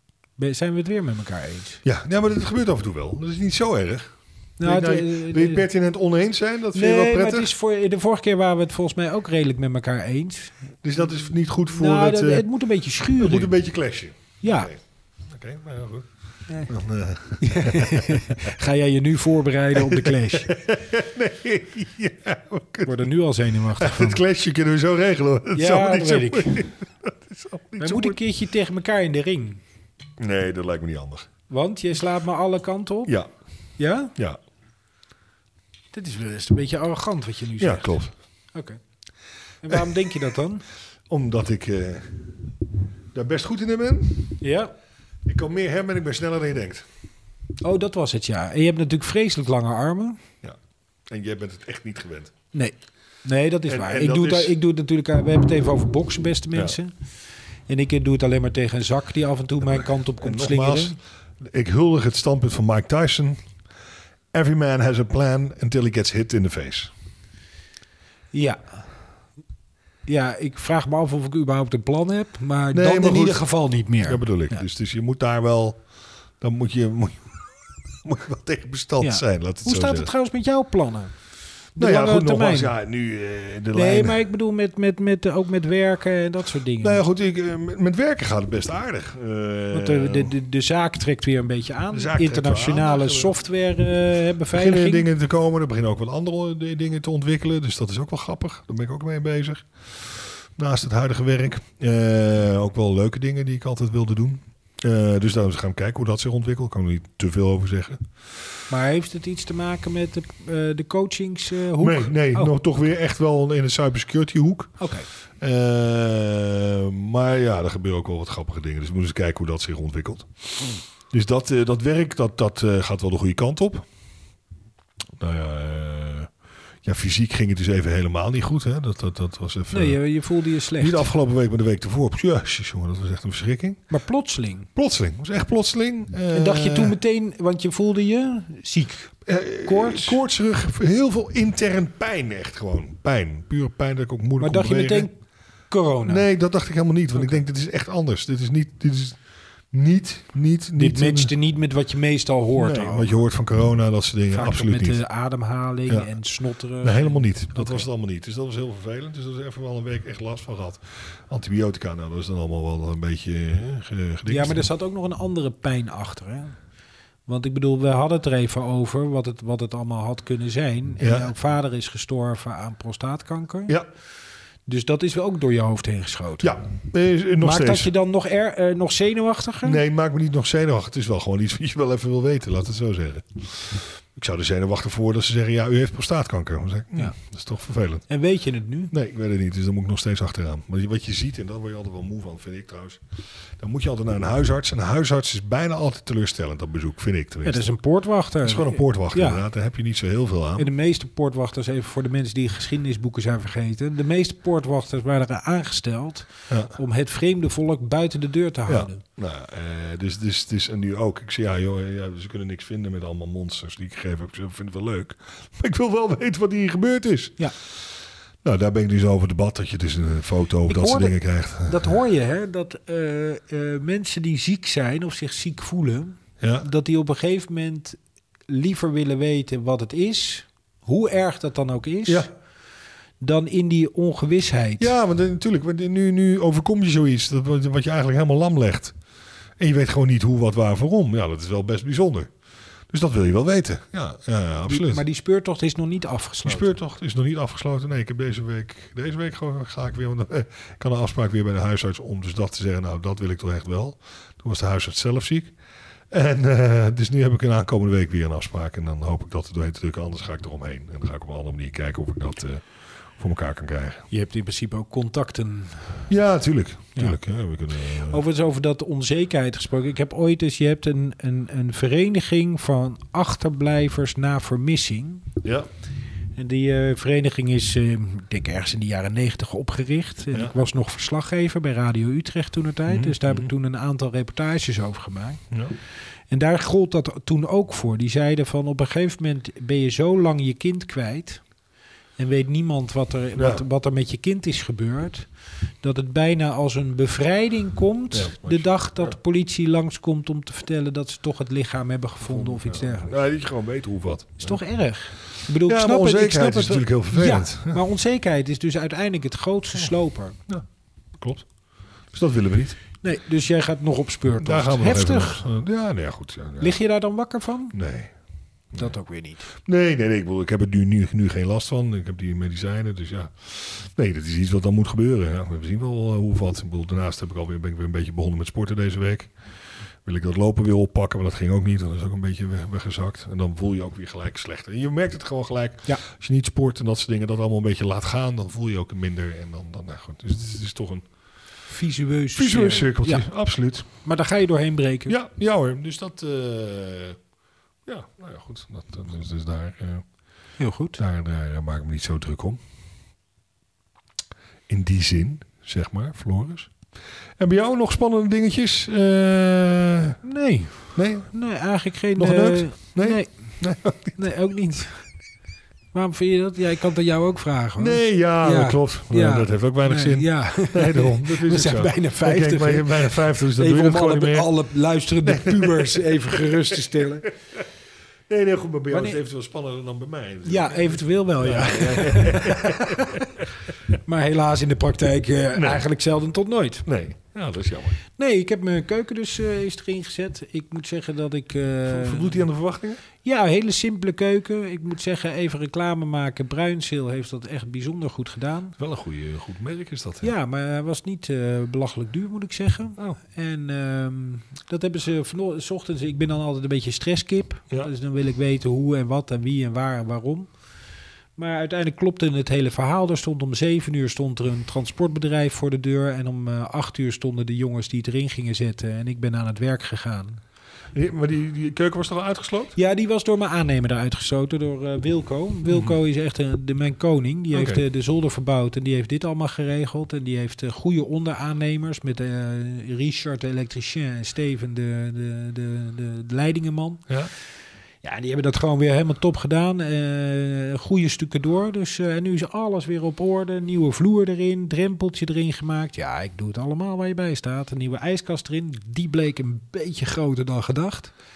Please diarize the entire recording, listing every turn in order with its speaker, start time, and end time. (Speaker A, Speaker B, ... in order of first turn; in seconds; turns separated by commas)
Speaker A: 0.4-1.8, Speaker B: 1.8-7.5, Speaker A: 4.6-5.7, Speaker A: 6.7-10.6, Speaker B: 10.8-12.5, Speaker A: 11.7-13.5, Speaker B: 13.2-16.1, Speaker A: 14.4-14.7, Speaker A: 16.5-16.7, Speaker B: 16.7-18.4, Speaker A: 17.4-20.6, Speaker B: 19.8-23.1, Speaker A: 22.9-24.2, Speaker B: 23.8-28.2, Speaker A: 25.6-26.7, Speaker A: 27.8-29.6, Speaker B: 30.2-31.3, Speaker A: 31.5-33.1, Speaker A: 33.8-34.1, Speaker A: 35.9-38.0, Speaker B: 37.6-38.1, Speaker A: 38.5-38.8, Speaker A: 39.6-40.6, Speaker B: 41.1-42.4, Speaker B: 43.1-44.4, Speaker A: 44.4-44.7, Speaker B: 45.3-46.9, Speaker A: 47.6-50.2, Speaker B: 51.1-52.3, Speaker A: 52.5-56.9, Speaker B: 53.7-54.5, Speaker A: 57.7-61.0, Speaker B: 59.6-63.4, Speaker B: 64.3-66.9, Speaker A: 68.3-68.8, Speaker A: 70.1-74.6, Speaker B: 72.7-73.5, Speaker B: 74.0-75.8, Speaker B: 76.4-77.5, Speaker B: 78.0-80.1, Speaker A: 79.0-81.1, Speaker A: 81.8-82.7, Speaker B: 81.8-84.2, Speaker A: 83.7-87.0, Speaker B: 86.8-90.3, Speaker A: 89.7-95.1, Speaker B: 91.9-93.3, Speaker B: 94.5-108.1, Speaker A: 108.7-112.5, Speaker B: 111.8-114.8, Speaker A: 114.8-115.1, Speaker B: 115.4-120.3, Speaker B: 121.1-123.9, Speaker B: 125.2-126.3, Speaker B: 126.8-130.0, Speaker A: 129.7-131.1, Speaker B: 130.8-133.9, Speaker A: 133.9-134.7, Speaker B: 134.8-137.0, Speaker A: 136.3-140.2, Speaker B: 139.3-145.1, Speaker A: 144.4-145.2, Speaker A: 145.7-146.3, Speaker B: 146.1-149.2, Speaker B: 149.7-151.3, Speaker A: 150.8-153.1, Speaker B: 152.6-155.0, Speaker A: 154.3-157.9, Speaker B: 156.8-164.7, Speaker A: 164.3-166.6, Speaker A: 167.3-173.8, Speaker B: 171.0-171.3, Speaker A: 174.7-176.6, Speaker B: 176.4-177.9, Speaker A: 177.4-179.8, Speaker B: 179.6-188.1, Speaker A: 188.1-188.9, Speaker B: 188.9-193.0, Speaker B: 193.6-197.7, Speaker A: 197.4-199.4, Speaker B: 198.4-200.7, Speaker A: 200.6-209.0, Speaker B: 206.5-206.8, Speaker B: 208.7-217.4, Speaker B: 218.4-221.9, Speaker A: 220.7-232.3, Speaker B: 226.4-226.7, Speaker A: 233.2-234.9, Speaker B: 234.8-239.0, Speaker B: 239.6-242.3, Speaker B: 242.9-245.0, Speaker A: 244.7-246.8, Speaker B: 246.4-255.6, Speaker B: 256.1-262.6, Speaker B: 263.2-264.1, Speaker A: 264.1-266.1, Speaker B: 266.1-268.2, Speaker A: 268.0-275.3, Speaker B: 275.4-275.7, Speaker A: 276.4-285.4, Speaker B: 282.9-283.5, Speaker A: 286.3-291.4, Speaker A: 292.2-295.3, Speaker B: 293.4-293.6, Speaker A: 295.8-303.2, Speaker B: 298.1-299.1, Speaker B: 302.2-304.6, Speaker A: 304.4-310.4, Speaker B: 305.6-307.8, Speaker B: 311.2-311.5, Speaker B: 312.1-312.8, Speaker A: 313.0-315.4, Speaker B: 314.4-316.8, Speaker A: 316.6-317.8, Speaker B: 317.7-318.1, Speaker A: 318.8-319.5, Speaker B: 319.6-329.3, Speaker B: 330.1-341.1, Speaker A: 341.7-343.3, Speaker B: 342.4-343.9, Speaker A: 344.0-345.1, Speaker B: 345.1-347.2, Speaker B: 347.9-350.1, Speaker A: 350.6-351.0, Speaker B: 351.0-352.6, Speaker B: 354.7-356.7, Speaker B: 357.4-360.2, Speaker A: 360.2-363.6, Speaker B: 360.9-361.3, Speaker B: 362.2-364.2, Speaker A: 364.1-365.1, Speaker A: 365.9-377.3, Speaker B: 367.8-374.5, Speaker B: 375.2-377.6, Speaker B: 378.3-383.4, Speaker A: 378.9-379.2, Speaker A: 380.4-383.3, Speaker A: 384.1-386.9, Speaker B: 385.5-385.9, Speaker B: 386.9-388.0, Speaker A: 388.2-392.5, Speaker B: 391.9-393.0, Speaker A: 393.2-398.8, Speaker B: 398.8-400.3, Speaker A: 400.2-410.5, Speaker A: 411.4-420.4, Speaker B: 420.9-422.8, Speaker A: 422.8-437.1, Speaker B: 425.7-425.9, Speaker B: 427.5-427.8, Speaker A: 438.0-451.1